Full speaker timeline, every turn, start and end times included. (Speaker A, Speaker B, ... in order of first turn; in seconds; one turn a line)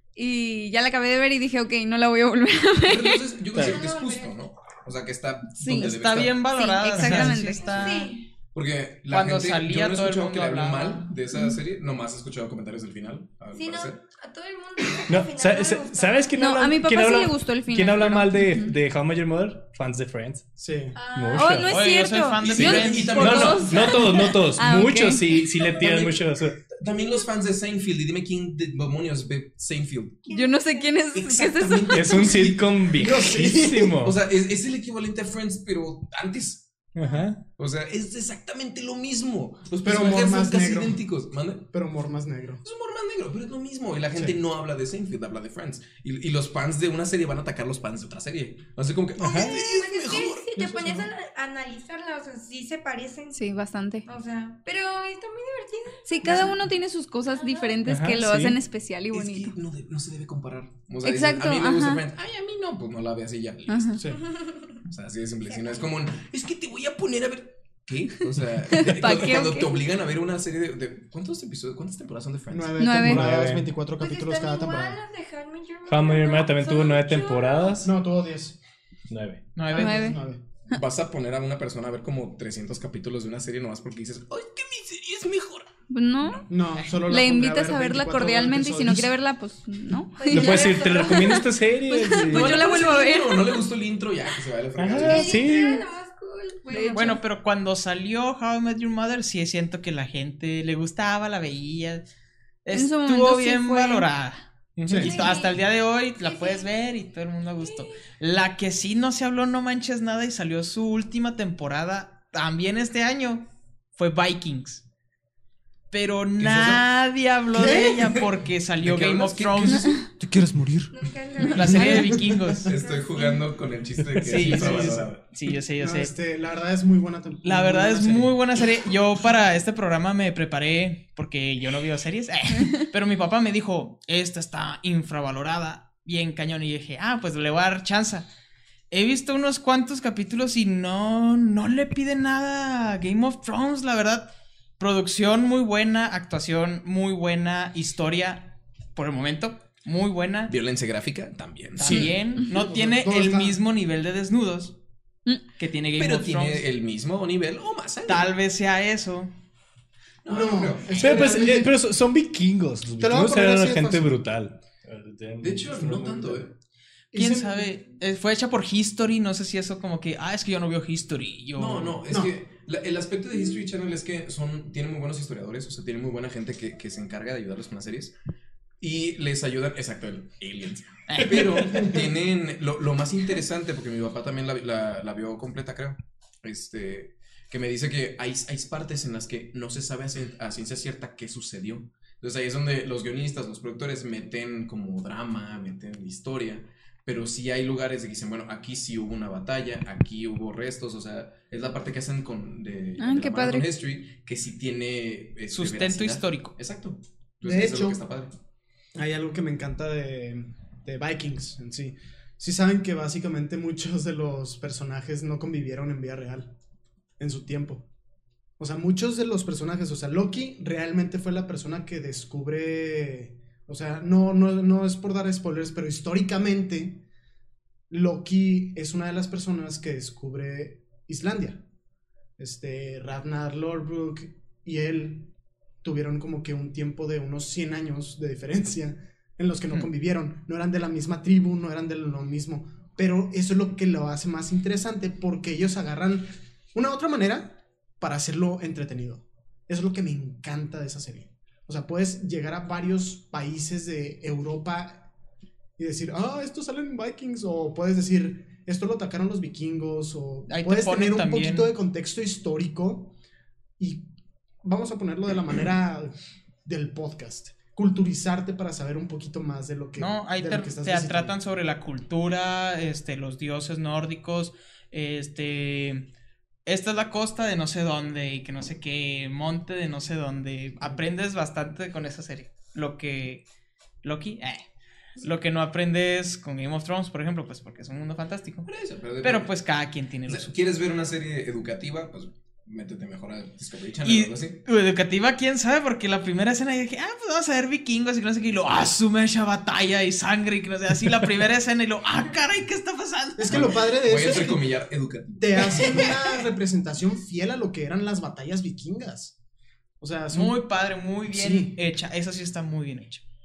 Speaker A: 0.2-3.2
Speaker B: 2.8-6.4
Speaker C: 3.5-3.8
Speaker D: 3.6-4.4
Speaker A: 5.6-5.9
Speaker E: 5.7-8.1
Speaker A: 6.5-8.0
Speaker D: 7.5-8.3
Speaker B: 8.5-14.0
Speaker E: 9.1-11.2
Speaker D: 13.5-16.5
Speaker C: 15.1-20.5
Speaker A: 16.4-18.7
Speaker F: 20.6-21.0
Speaker D: 20.9-21.7
Speaker C: 21.1-21.8
Speaker A: 21.3-25.4
Speaker E: 21.7-23.5
Speaker B: 22.4-24.2
Speaker C: 22.6-26.6
Speaker B: 25.8-26.1
Speaker B: 26.7-30.2
Speaker D: 30.2-31.1
Speaker A: 30.3-32.3
Speaker B: 31.1-36.9
Speaker C: 31.9-34.2
Speaker F: 32.9-34.1
Speaker C: 36.9-37.5
Speaker B: 37.5-41.7
Speaker F: 39.8-41.0
Speaker F: 41.7-42.6
Speaker B: 42.6-50.8
Speaker C: 49.2-49.5
Speaker D: 49.2-53.4
Speaker A: 53.3-54.1
Speaker D: 54.0-56.5
Speaker A: 56.0-59.6
Speaker F: 56.2-56.5
Speaker D: 57.3-57.8
Speaker C: 57.9-58.6
Speaker B: 59.1-64.1
Speaker A: 61.0-62.0
Speaker A: 63.7-64.0
Speaker D: 64.2-64.8
Speaker B: 64.9-72.9
Speaker D: 65.5-65.9
Speaker A: 68.7-69.8
Speaker F: 72.5-75.0
Speaker A: 72.8-73.3
Speaker C: 73.0-73.7
Speaker D: 74.0-77.8
Speaker C: 75.9-77.9
Speaker F: 77.8-78.6
Speaker C: 79.1-79.5
Speaker E: 79.6-80.1
Speaker F: 79.7-80.4
Speaker A: 79.7-80.2
Speaker B: 80.7-85.7
Speaker A: 85.9-86.5
Speaker F: 86.5-89.1
Speaker A: 87.0-93.5
Speaker D: 90.2-93.3
Speaker C: 90.3-92.6
Speaker B: 92.2-95.5
Speaker C: 94.8-95.8
Speaker D: 95.0-97.2
Speaker A: 96.7-97.2
Speaker E: 96.9-102.0
Speaker E: 102.7-114.8
Speaker A: 102.7-104.1
Speaker C: 104.8-105.1
Speaker F: 104.9-105.1
Speaker D: 105.1-105.6
Speaker D: 106.2-106.7
Speaker D: 107.6-108.0
Speaker E: 115.9-120.0
Speaker B: 116.4-116.8
Speaker F: 117.5-118.0
Speaker B: 118.8-120.0
Speaker F: 119.9-120.9
Speaker D: 120.9-123.5
Speaker E: 121.5-122.7
Speaker F: 121.5-122.7
Speaker B: 122.7-125.2
Speaker C: 124.0-124.7
Speaker E: 124.2-126.1
Speaker F: 124.4-125.1
Speaker F: 125.8-128.4
Speaker E: 127.4-138.3
Speaker E: 138.9-150.5
Speaker B: 150.5-152.2
Speaker E: 151.8-154.8
Speaker F: 151.9-153.6
Speaker E: 155.6-156.7
Speaker B: 155.9-158.3
Speaker E: 158.1-159.3
Speaker B: 160.2-161.7
Speaker F: 160.3-161.7
Speaker C: 161.0-166.4
Speaker F: 163.0-164.2
Speaker B: 165.4-166.6
Speaker F: 167.1-167.7
Speaker E: 167.1-172.0
Speaker B: 171.6-178.1
Speaker F: 172.1-172.3
Speaker B: 178.8-208.4
Speaker E: 181.1-181.9
Speaker A: 203.0-203.7
Speaker E: 205.5-206.6
Speaker F: 207.4-208.0
Speaker F: 209.0-216.6
Speaker F: 217.2-217.9
Speaker F: 218.6-227.1
Speaker F: 227.9-231.7
Speaker F: 232.4-255.1
Speaker F: 255.8-263.2
Speaker E: 260.5-261.7
Speaker F: 263.8-264.1
Speaker F: 264.6-266.1
Speaker F: 266.6-271.4
Speaker E: 270.0-276.1
Speaker E: 276.6-283.4
Speaker E: 284.0-284.6
Speaker E: 285.2-288.7
Speaker B: 288.6-289.5
Speaker E: 289.2-290.6
Speaker B: 290.3-294.6
Speaker E: 294.0-303.7
Speaker F: 303.4-304.8
Speaker B: 303.5-306.2
Speaker F: 305.4-309.4
Speaker F: 310.0-310.6
Speaker E: 310.3-313.2
Speaker F: 311.3-311.8